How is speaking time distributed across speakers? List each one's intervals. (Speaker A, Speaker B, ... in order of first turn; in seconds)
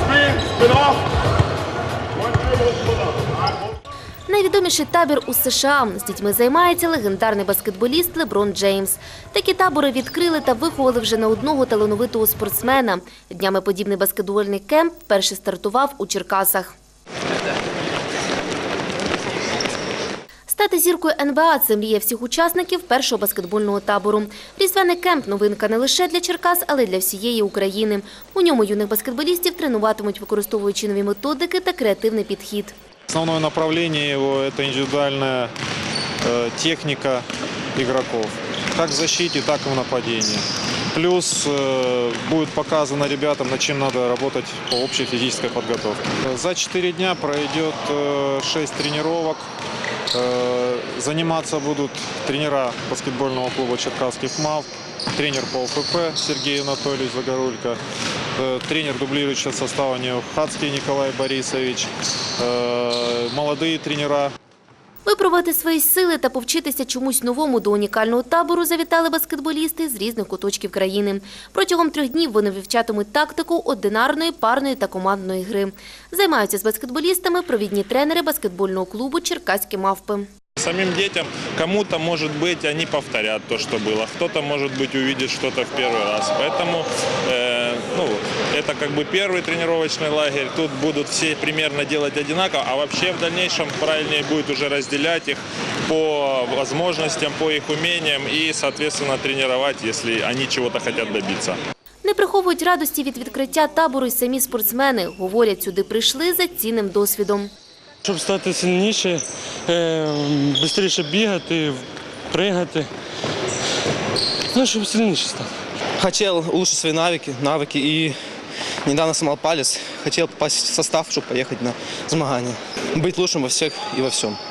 Speaker A: 4.3-16.8, 20.5-32.7, 65.0-80.3, 102.0-107.5
Speaker B: 33.1-35.5, 36.2-37.2, 37.8-49.4, 50.1-57.8, 58.4-64.3
Speaker C: 80.6-101.6
Speaker D: 108.0-112.9, 114.5-115.5
Speaker E: 116.0-118.2, 118.8-124.4